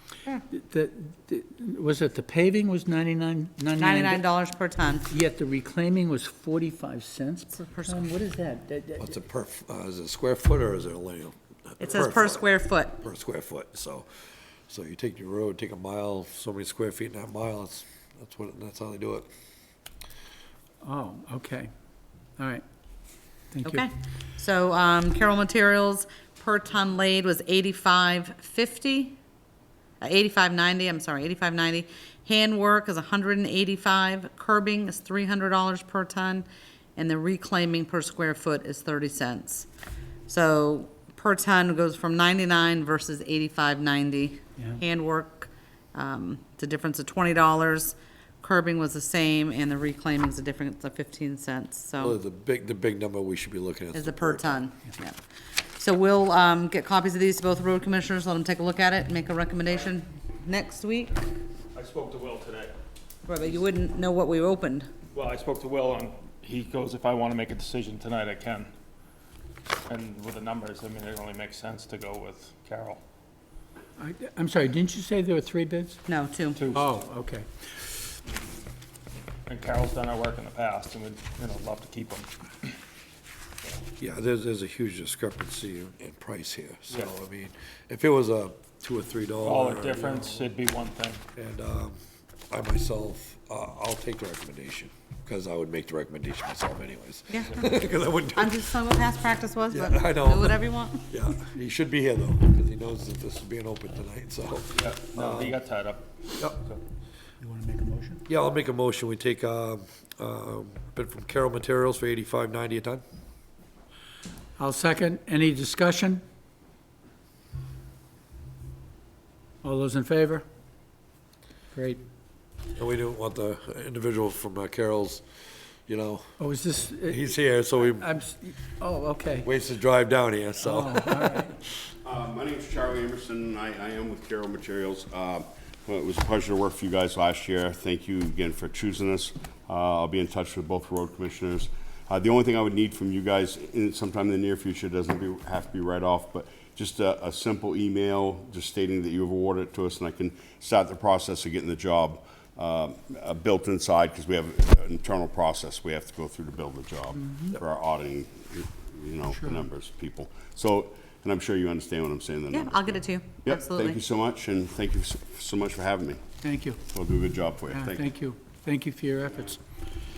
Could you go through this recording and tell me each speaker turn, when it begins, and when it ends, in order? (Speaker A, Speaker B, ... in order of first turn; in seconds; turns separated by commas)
Speaker A: 0.3-4.3, Speaker B: 3.8-5.1, Speaker A: 5.1-9.2, Speaker B: 7.5-8.1, Speaker C: 9.0-12.5, Speaker B: 11.8-13.0, Speaker C: 13.0-14.1, Speaker C: 14.7-19.3, Speaker A: 20.8-21.7, Speaker A: 22.4-22.6, Speaker A: 23.5-23.8, Speaker B: 23.6-29.2, Speaker B: 30.0-39.7, Speaker B: 40.3-52.2, Speaker C: 52.0-54.6, Speaker B: 53.9-55.2, Speaker B: 55.8-61.1, Speaker D: 61.7-62.8, Speaker B: 63.3-64.9, Speaker D: 65.1-68.7, Speaker D: 69.9-73.0, Speaker A: 74.0-76.0, Speaker B: 76.1-76.6, Speaker D: 76.6-76.9, Speaker A: 76.7-77.5, Speaker D: 79.5-82.7, Speaker C: 84.0-90.5, Speaker D: 89.4-91.2, Speaker C: 91.4-92.0, Speaker C: 92.5-98.7, Speaker B: 97.3-97.8, Speaker B: 98.3-101.1, Speaker C: 99.7-105.6, Speaker D: 104.7-106.8, Speaker A: 107.4-108.2, Speaker C: 108.3-113.0, Speaker A: 114.6-116.2, Speaker A: 119.6-120.5, Speaker A: 121.7-122.0, Speaker C: 122.8-125.2, Speaker C: 125.9-126.3, Speaker A: 126.4-129.5, Speaker C: 127.0-128.1, Speaker C: 129.4-131.3, Speaker A: 130.6-131.6, Speaker E: 132.1-166.2, Speaker A: 157.2-157.6, Speaker A: 159.3-159.7, Speaker B: 162.5-164.0, Speaker A: 166.4-166.8, Speaker E: 166.9-168.0, Speaker A: 167.7-169.6